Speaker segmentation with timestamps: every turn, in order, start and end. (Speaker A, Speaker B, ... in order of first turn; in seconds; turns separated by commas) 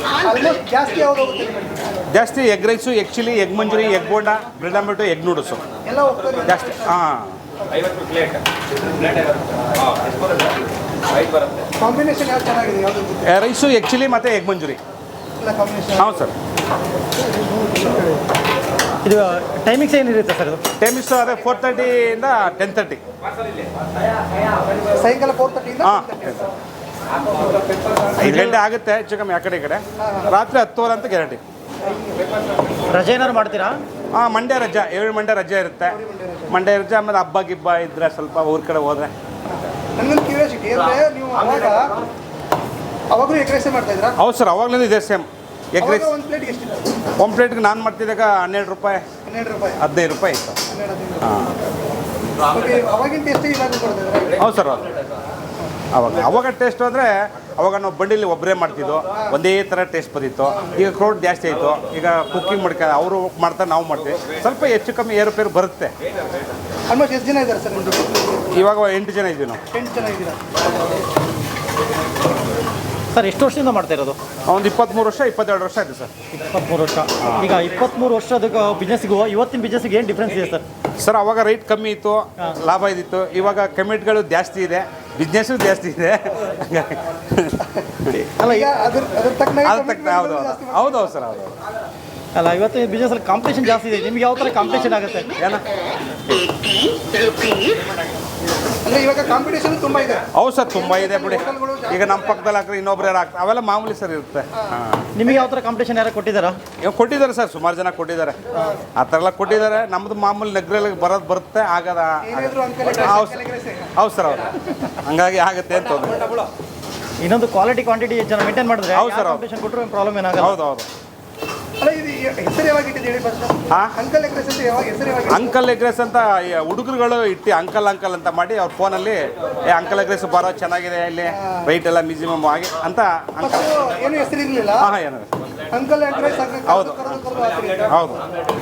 Speaker A: 0.2-2.0, Speaker B: 2.1-5.7, Speaker A: 5.8-7.0, Speaker B: 6.5-7.4, Speaker C: 7.7-11.7, Speaker A: 11.8-13.4, Speaker B: 13.3-14.8, Speaker A: 15.4-16.2, Speaker B: 16.0-16.3, Speaker A: 17.4-18.2, Speaker D: 19.0-20.6, Speaker B: 20.8-23.0, Speaker A: 24.9-26.5, Speaker B: 25.8-26.5, Speaker C: 27.8-28.1, Speaker B: 28.1-31.4, Speaker A: 30.0-30.3, Speaker D: 32.9-33.8, Speaker B: 34.1-36.0, Speaker A: 35.9-36.6, Speaker B: 36.5-39.1, Speaker A: 39.5-42.0, Speaker A: 43.1-44.2, Speaker B: 44.2-46.1, Speaker A: 45.8-46.9, Speaker B: 47.2-49.0, Speaker A: 49.3-49.8, Speaker B: 49.8-50.6, Speaker A: 50.7-51.4, Speaker B: 51.2-51.5, Speaker A: 52.4-54.5, Speaker B: 54.4-54.9, Speaker B: 55.9-65.9, Speaker A: 60.5-60.8, Speaker A: 66.9-68.6, Speaker B: 68.5-69.6, Speaker A: 69.7-70.4, Speaker D: 73.1-74.2, Speaker B: 74.5-76.1, Speaker D: 76.3-80.7, Speaker B: 77.2-77.5, Speaker B: 81.0-87.6, Speaker D: 88.1-88.7, Speaker A: 88.4-91.4, Speaker B: 89.6-91.5, Speaker D: 92.3-95.3, Speaker B: 95.4-95.7, Speaker A: 98.8-102.4, Speaker B: 100.3-105.1, Speaker A: 104.5-105.4, Speaker D: 105.2-106.6, Speaker B: 106.8-108.4, Speaker B: 108.9-113.4, Speaker A: 112.2-113.9, Speaker B: 114.0-116.4, Speaker D: 117.2-120.6, Speaker B: 118.9-119.5, Speaker B: 120.4-120.9, Speaker A: 121.8-125.5, Speaker B: 125.3-133.8, Speaker A: 131.3-131.7, Speaker A: 133.4-134.9, Speaker B: 134.8-135.3, Speaker A: 135.7-138.2, Speaker B: 136.7-137.2, Speaker B: 137.8-138.2